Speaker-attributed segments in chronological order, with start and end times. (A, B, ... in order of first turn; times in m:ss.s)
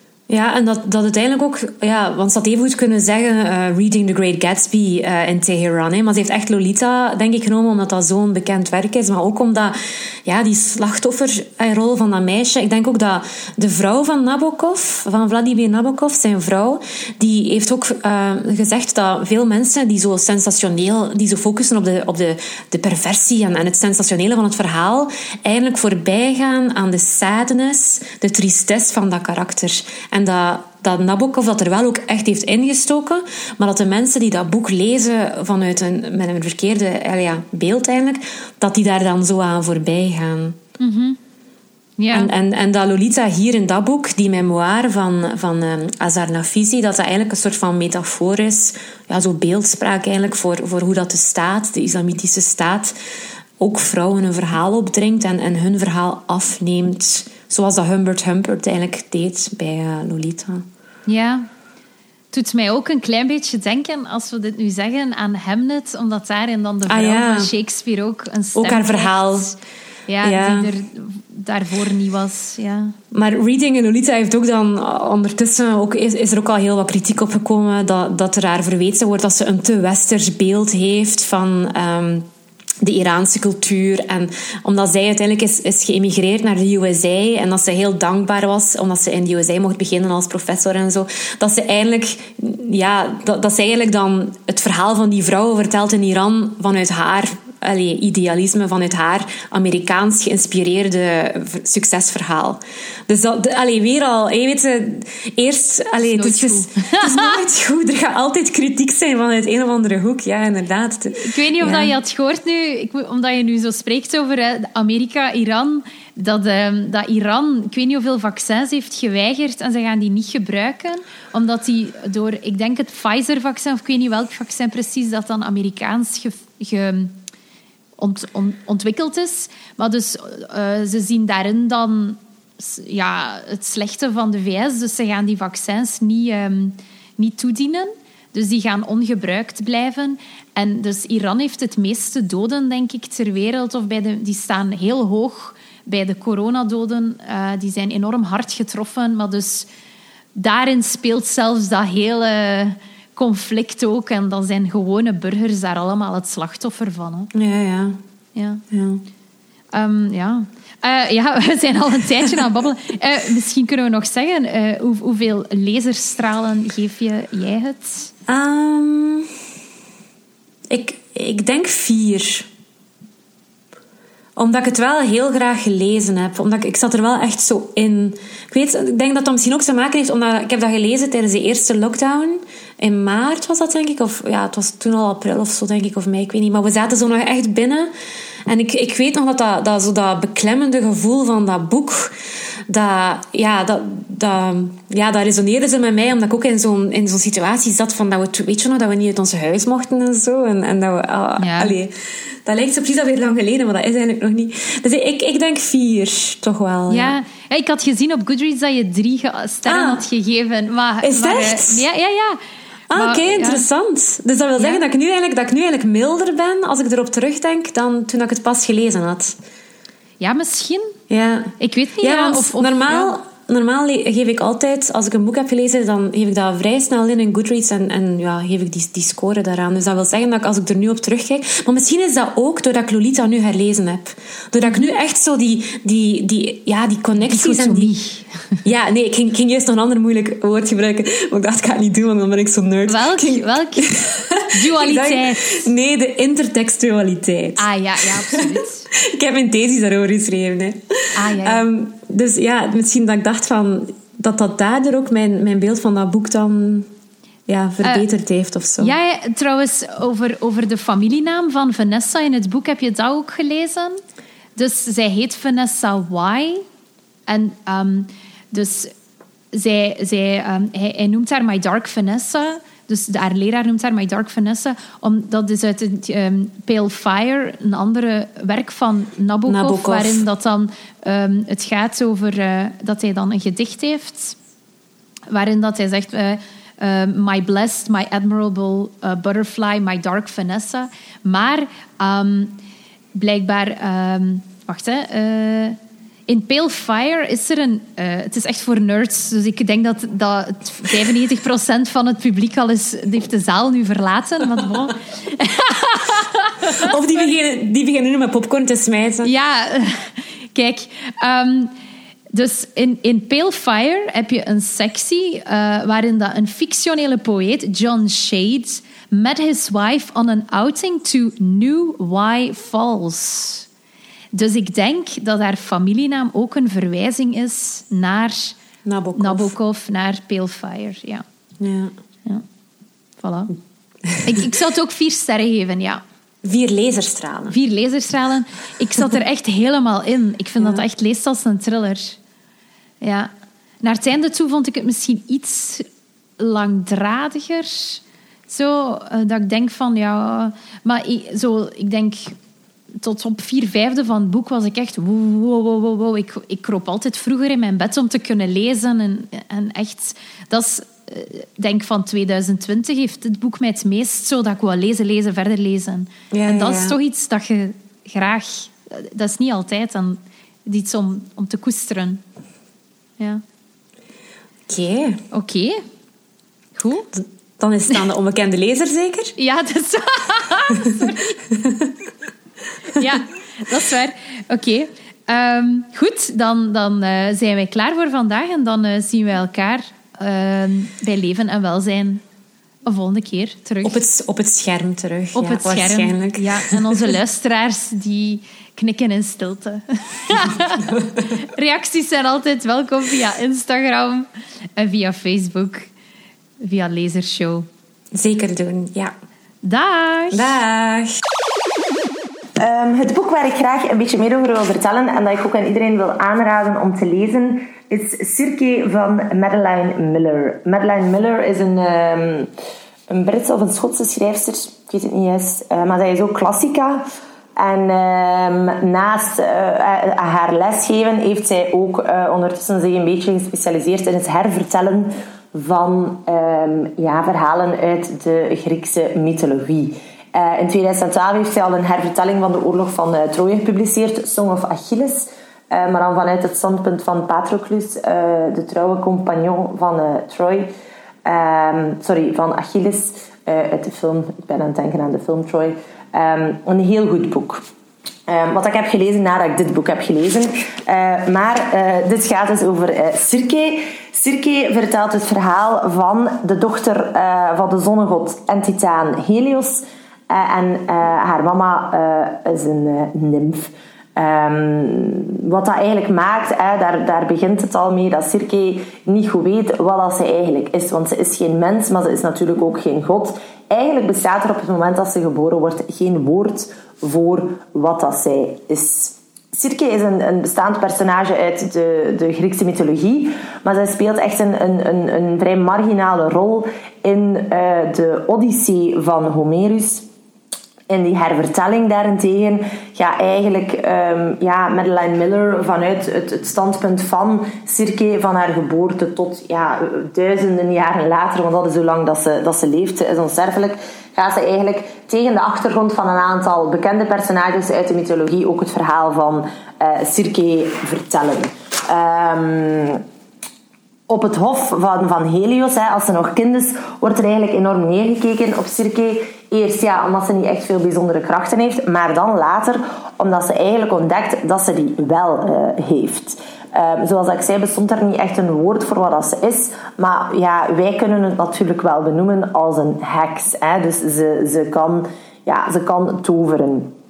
0:00.3-0:40.6 A
0:40.8-0:41.2 B
0:42.0-0:42.3 B
0:42.1-0:53.0 A
0:53.6-1:00.6 A
1:01.1-1:01.5 B
1:02.3-1:09.6 B
1:06.9-1:07.5 A
1:08.6-1:09.5 A
1:10.1-1:13.0 B
1:10.2-1:10.7 A
1:13.1-1:22.3 A
1:22.8-1:51.9 A
1:46.0-1:47.4 B
1:51.2-2:07.2 B
2:08.0-2:29.7 B
2:30.4-2:37.3 B
2:37.3-2:38.0 A
2:38.4-2:38.6 B
2:38.7-2:39.0 A
2:39.7-2:48.1 B
2:48.3-2:49.3 A
2:50.7-2:52.5 A
2:54.4-3:07.9 A
3:08.5-3:12.2 A
3:12.7-3:27.2 A
3:21.4-3:21.8 B
3:26.9-3:32.4 B
3:29.7-3:30.0 A
3:31.0-3:31.8 A
3:32.9-3:39.4 A
3:32.9-3:33.6 B
3:34.6-3:34.8 B
3:40.2-3:41.0 B
3:41.1-3:57.9 A
3:41.6-3:43.2 B
3:57.2-3:58.3 B
3:58.6-4:16.9 A
4:02.9-4:04.0 B
4:04.5-4:05.7 B
4:07.6-4:08.9 B
4:11.2-4:11.6 B
4:17.5-4:19.0 A
4:18.8-4:24.0 B
4:24.6-4:26.6 B
4:27.3-4:28.9 B
4:29.5-4:44.4 B
4:39.5-4:40.2 A
4:45.3-4:52.6 B
4:53.1-4:55.8 B
4:56.3-5:06.9 B
5:06.7-5:09.3 A
5:09.2-5:11.7 B
5:12.3-5:23.7 B
5:24.3-5:28.6 B
5:28.8-5:29.5 A
5:29.2-5:31.2 B
5:31.6-5:31.9 A
5:33.2-5:33.5 B
5:34.2-5:36.0 B
5:36.4-5:37.6 A
5:37.5-5:42.2 B
5:43.0-5:43.3 B
5:43.8-5:45.8 B
5:46.4-5:52.4 B
5:53.0-6:12.2 B
6:06.3-6:07.0 A
6:14.7-6:15.2 A
6:15.3-6:15.8 B
6:16.8-6:17.1 B
6:17.2-6:19.4 A
6:19.4-6:21.4 B
6:21.5-6:21.9 A
6:22.9-6:32.2 B
6:32.8-6:34.0 B
6:33.8-6:36.8 A
6:35.4-6:45.9 B
6:46.6-6:47.7 B
6:48.1-6:49.1 A
6:49.6-6:50.5 B
6:50.3-6:51.1 A
6:52.6-7:02.5 C
7:03.1-7:07.0 C
7:07.6-7:30.7 C
7:31.2-7:37.6 C
7:38.3-8:20.0 C
8:20.9-8:43.0 C
8:44.1-9:06.9 C